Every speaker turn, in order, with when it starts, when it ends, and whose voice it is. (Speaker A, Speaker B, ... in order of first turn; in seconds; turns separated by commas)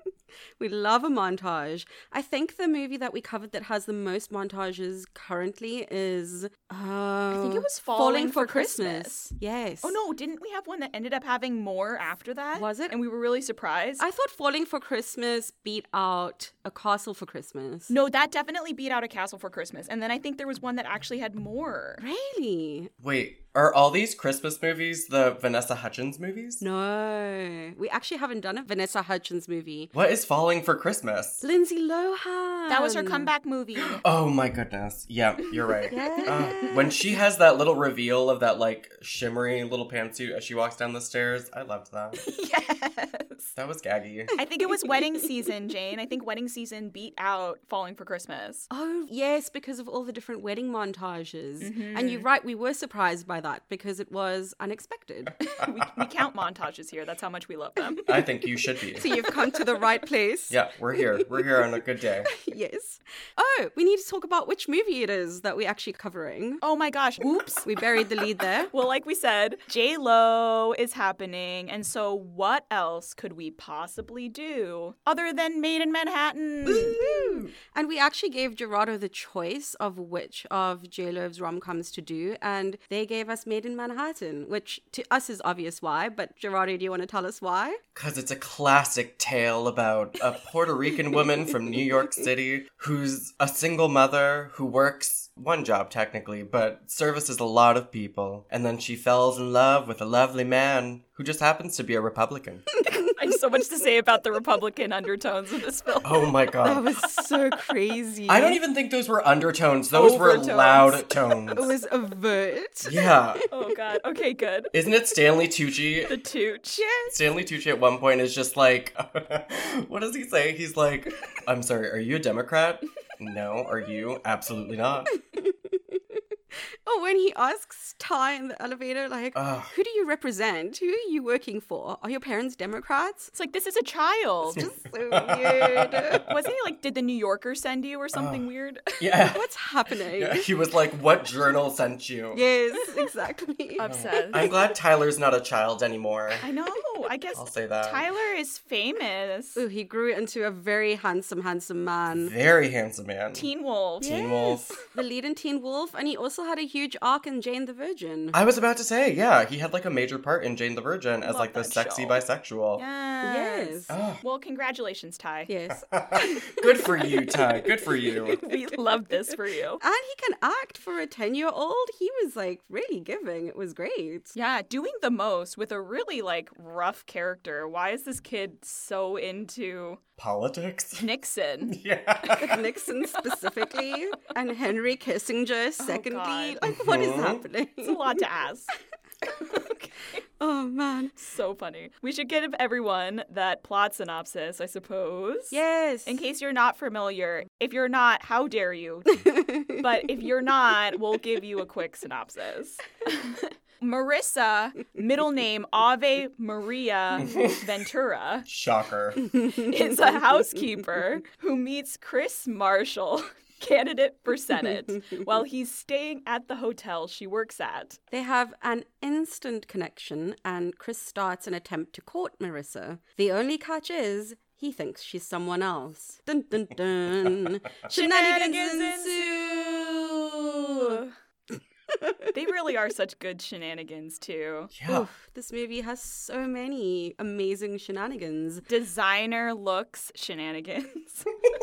Speaker A: 0.6-10.0, Speaker B: 7.3-14.0, Speaker A: 12.5-12.9, Speaker A: 14.0-17.9, Speaker B: 17.9-22.0, Speaker A: 22.0-22.9, Speaker C: 23.0-26.6, Speaker A: 26.6-29.9, Speaker C: 29.9-31.4, Speaker A: 31.4-33.3, Speaker B: 32.7-34.0, Speaker C: 33.8-42.2, Speaker B: 35.7-36.8, Speaker A: 35.9-37.0, Speaker B: 42.2-43.5, Speaker C: 43.5-44.4, Speaker B: 44.4-48.7, Speaker A: 48.7-55.3, Speaker B: 51.6-52.3, Speaker B: 55.4-58.2, Speaker C: 58.0-59.1, Speaker A: 59.0-61.6, Speaker B: 59.0-59.3, Speaker C: 60.5-62.3, Speaker A: 62.3-66.6, Speaker B: 66.6-68.1, Speaker A: 67.6-68.7, Speaker B: 68.7-77.0, Speaker A: 76.7-87.8, Speaker C: 76.7-77.5, Speaker C: 87.9-102.7, Speaker B: 102.8-106.3, Speaker C: 106.0-107.0, Speaker A: 106.6-108.6, Speaker C: 108.3-111.7, Speaker B: 109.9-111.0, Speaker A: 110.0-110.8, Speaker A: 111.5-113.4, Speaker C: 112.8-113.5, Speaker B: 113.5-114.7, Speaker C: 114.7-116.2, Speaker B: 116.0-116.8, Speaker A: 116.8-117.2, Speaker C: 117.1-125.1, Speaker A: 125.2-126.2, Speaker A: 126.8-133.3, Speaker C: 129.3-129.7, Speaker B: 133.3-134.7, Speaker A: 134.4-136.3, Speaker C: 134.6-136.3, Speaker B: 136.2-139.1, Speaker C: 138.1-139.5, Speaker A: 139.3-140.5, Speaker C: 140.2-142.4, Speaker A: 142.3-143.9, Speaker B: 143.8-144.5, Speaker C: 143.8-146.4, Speaker B: 146.4-149.6, Speaker C: 147.3-148.0, Speaker A: 149.6-152.3, Speaker C: 152.1-153.5, Speaker B: 153.3-154.1, Speaker C: 154.0-154.8, Speaker A: 154.0-158.4, Speaker C: 158.3-162.8, Speaker B: 161.2-162.2, Speaker B: 162.8-165.5, Speaker A: 163.2-164.0, Speaker C: 163.9-164.2, Speaker A: 165.5-167.5, Speaker C: 165.9-168.4, Speaker B: 168.2-169.8, Speaker A: 169.8-174.3, Speaker B: 174.3-180.0, Speaker C: 180.2-181.1, Speaker B: 181.0-181.8, Speaker C: 181.7-182.7, Speaker A: 182.2-188.2, Speaker B: 185.8-186.6, Speaker C: 186.7-187.4, Speaker B: 187.8-190.2, Speaker A: 190.4-191.2, Speaker B: 191.2-199.1, Speaker A: 195.5-196.2, Speaker A: 199.1-199.9, Speaker B: 199.8-208.5, Speaker C: 207.2-207.7, Speaker C: 208.4-209.3, Speaker A: 209.4-209.7, Speaker B: 209.5-218.0, Speaker A: 218.1-231.0, Speaker B: 227.9-229.3, Speaker B: 230.6-231.1, Speaker A: 231.9-232.3, Speaker B: 232.3-234.7, Speaker C: 234.7-235.1, Speaker A: 234.9-238.7, Speaker B: 238.7-241.3